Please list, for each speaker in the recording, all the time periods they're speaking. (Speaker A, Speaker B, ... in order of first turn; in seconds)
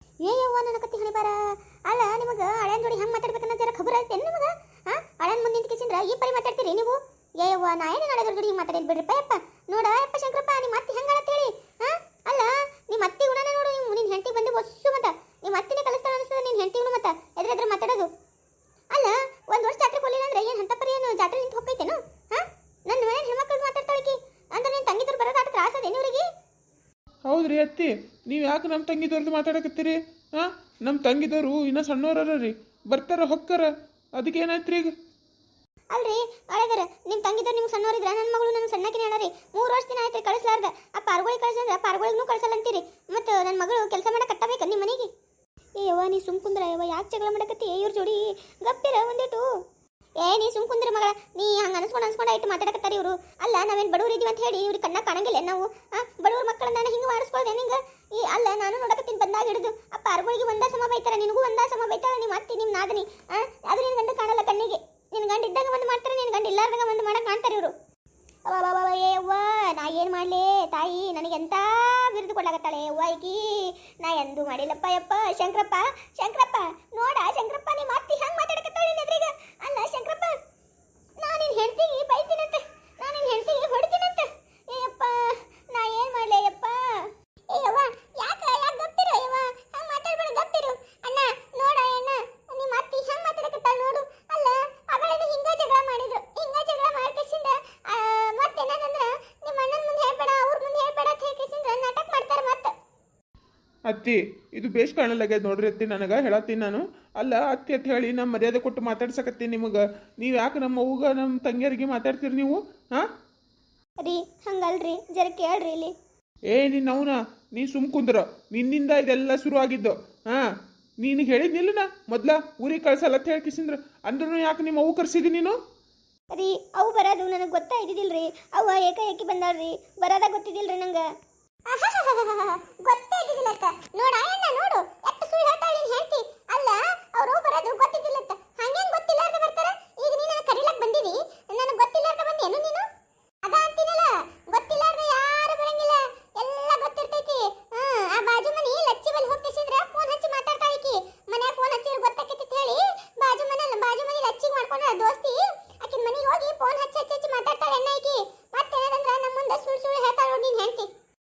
Speaker A: 0.2-18.1, 18.9-26.3, 35.9-45.1, 45.8-49.5, 50.2-67.7, 68.5-80.3, 81.2-102.7, 114.0-115.9, 126.3-131.0, 131.7-142.9, 143.4-160.9
Speaker B: 27.3-34.9, 103.9-113.1, 116.5-120.5, 121.0-125.6